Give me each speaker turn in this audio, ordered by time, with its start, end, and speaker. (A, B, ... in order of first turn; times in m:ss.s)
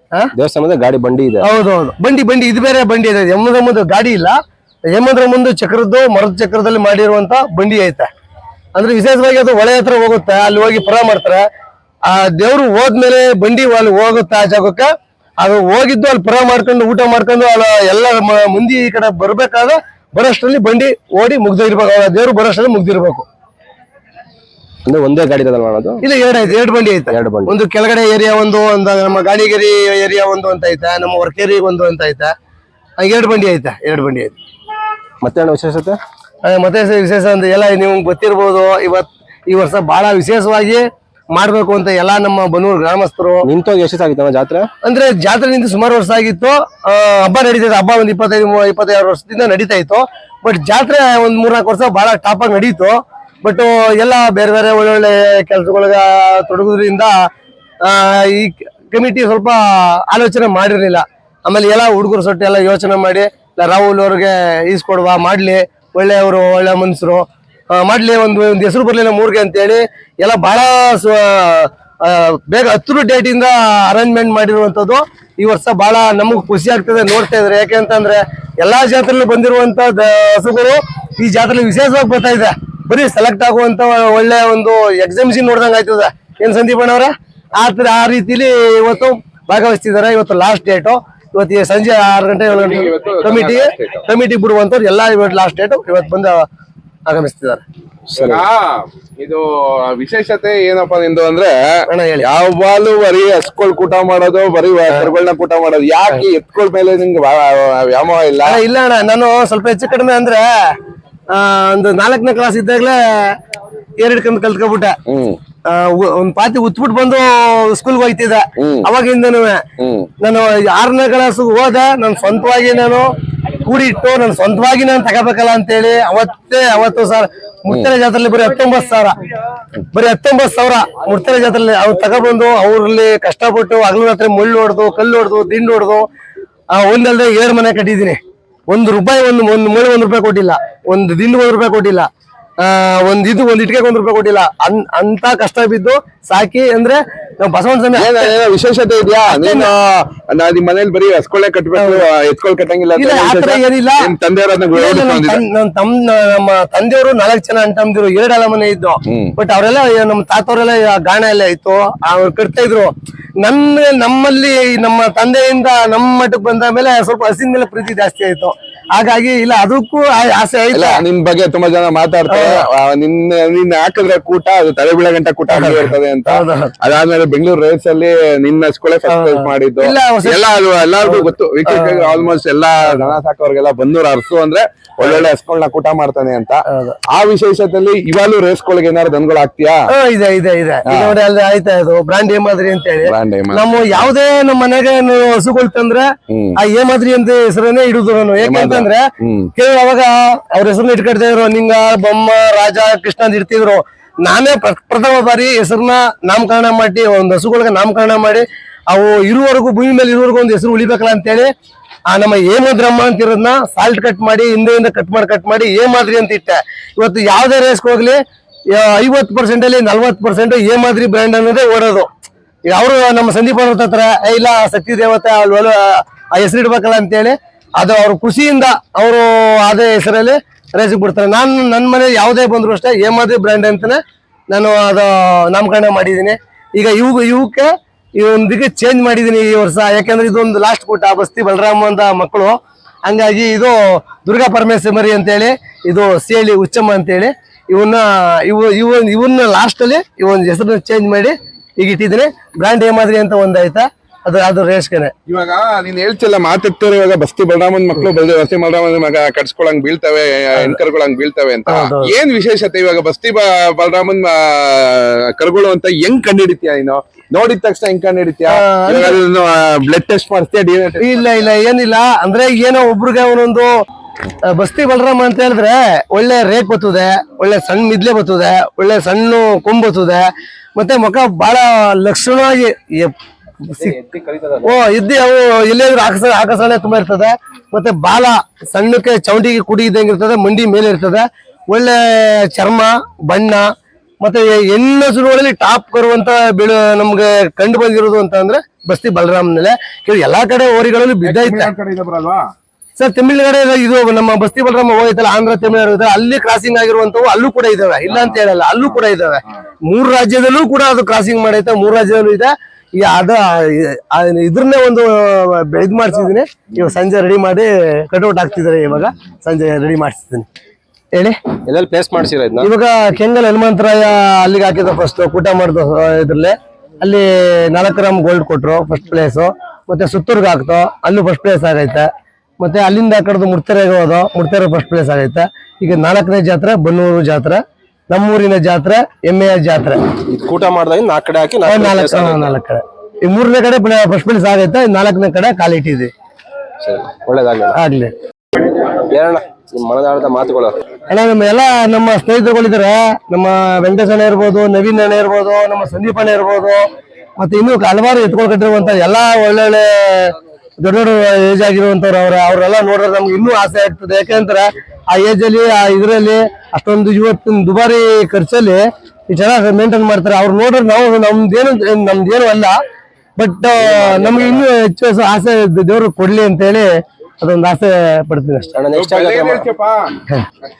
0:00.3-0:01.4 A
0:01.4-0:04.4 B
0:04.9-0:08.1 B
0:08.7-0:11.4 B
0:12.0-0:14.9 B
0:15.4-0:23.2 B
0:24.8-0:26.0 A
0:26.0-0:32.3 B
0:27.1-0:27.6 A
0:33.0-0:34.4 B
0:35.2-0:36.0 A
0:36.4-0:43.4 B
0:43.4-0:44.7 A
0:44.8-0:57.1 B
0:57.8-1:07.2 B
1:07.8-1:36.4 B
1:32.5-1:34.0 C
1:37.0-1:37.6 B
1:38.1-1:38.4 A
1:38.2-1:48.6 C
1:41.9-1:42.3 B
1:48.4-1:50.8 B
1:51.3-1:53.4 B
1:54.0-1:55.0 B
1:55.1-1:55.4 C
1:55.7-1:59.6 B
1:58.6-1:58.8 C
1:59.8-2:00.1 C
2:00.2-2:03.1 B
2:03.6-2:09.2 B
2:09.9-2:16.1 B
2:16.7-2:18.2 B
2:18.7-2:22.1 B
2:22.6-2:28.3 B
2:27.9-2:35.4 C
2:29.3-2:29.7 B
2:31.8-2:32.0 B
2:33.0-2:34.1 B
2:34.7-2:51.0 B
2:39.1-2:39.3 C
2:50.7-3:09.9 C
2:52.3-2:52.6 B
2:55.5-2:56.7 B
2:59.1-3:00.4 B
3:01.0-3:02.2 B
3:06.7-3:07.0 B
3:09.9-3:31.5 B
3:10.8-3:11.1 C
3:13.0-3:14.1 C
3:16.3-3:16.6 C
3:18.4-3:19.5 C
3:32.1-3:38.2 B
3:38.7-3:42.1 B
3:42.6-3:54.0 B
3:54.5-4:15.1 B
4:15.3-4:31.0 C
4:21.7-4:22.1 B
4:28.5-4:29.2 B
4:31.0-4:33.7 B
4:34.5-4:43.9 B
4:43.8-4:44.8 A
4:44.6-4:53.7 B
4:54.2-5:01.7 B
5:01.2-5:02.5 C
5:03.0-5:20.5 B
5:21.6-5:22.7 A
5:22.6-5:32.1 B
5:32.6-5:40.1 B
5:40.3-5:42.5 A
5:41.6-5:46.1 B
5:46.8-5:47.8 A
5:47.7-5:48.1 B
5:48.8-5:50.8 A
5:51.1-5:56.9 B
5:57.4-6:12.8 B
6:13.4-6:18.8 B
6:13.8-6:14.6 A
6:18.7-6:19.7 A
6:18.9-6:20.2 C